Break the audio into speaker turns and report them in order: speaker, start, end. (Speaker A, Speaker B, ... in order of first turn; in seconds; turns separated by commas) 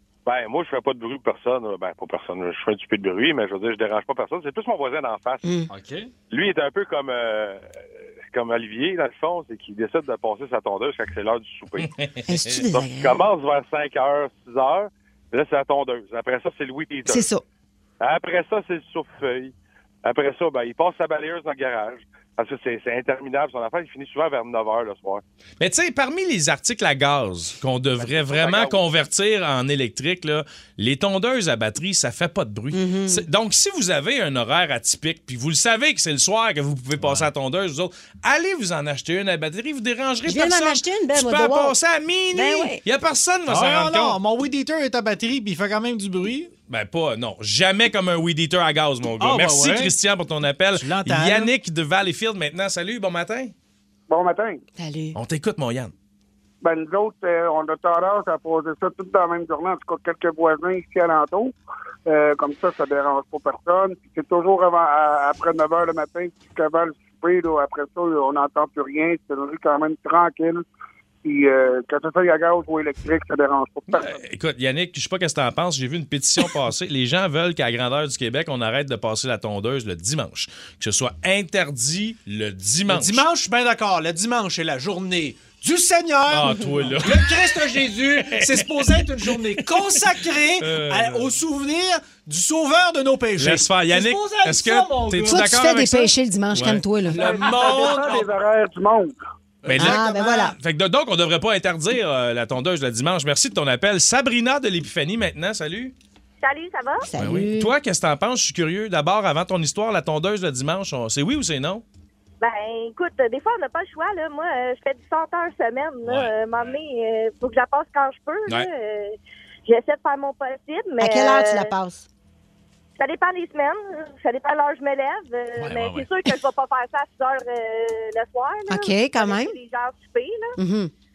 Speaker A: 0.2-5.4, Speaker B: 5.4-5.7, Speaker C: 5.7-6.1, Speaker A: 6.3-7.6, Speaker A: 8.3-11.9, Speaker B: 12.3-13.2, Speaker A: 12.6-17.2, Speaker B: 17.1-17.4, Speaker A: 18.0-19.5, Speaker A: 20.0-25.2, Speaker D: 25.6-44.2, Speaker A: 28.0-28.9, Speaker B: 32.7-33.2, Speaker C: 37.0-37.3, Speaker B: 40.2-41.8, Speaker B: 42.3-42.8, Speaker C: 43.5-46.5, Speaker D: 46.7-53.5, Speaker C: 49.2-49.9, Speaker C: 50.8-51.5, Speaker E: 54.1-54.6, Speaker B: 54.8-55.2, Speaker D: 55.1-55.9, Speaker E: 56.6-61.5, Speaker E: 62.1-70.6, Speaker E: 71.2-74.2, Speaker D: 73.9-83.2, Speaker C: 82.9-95.5, Speaker D: 86.3-87.6, Speaker D: 88.2-88.9, Speaker D: 89.6-90.0, Speaker D: 90.6-91.3, Speaker D: 93.4-96.8, Speaker B: 95.3-97.3, Speaker C: 97.1-98.3, Speaker E: 97.2-99.1, Speaker C: 99.6-100.5, Speaker D: 99.7-105.9, Speaker B: 99.8-100.5, Speaker F: 106.4-107.0, Speaker B: 107.0-107.7, Speaker D: 107.2-111.8, Speaker F: 112.4-121.7, Speaker D: 116.0-116.3, Speaker B: 121.0-122.0, Speaker F: 123.0-130.5, Speaker C: 125.6-126.3, Speaker B: 128.7-129.5, Speaker B: 130.6-130.9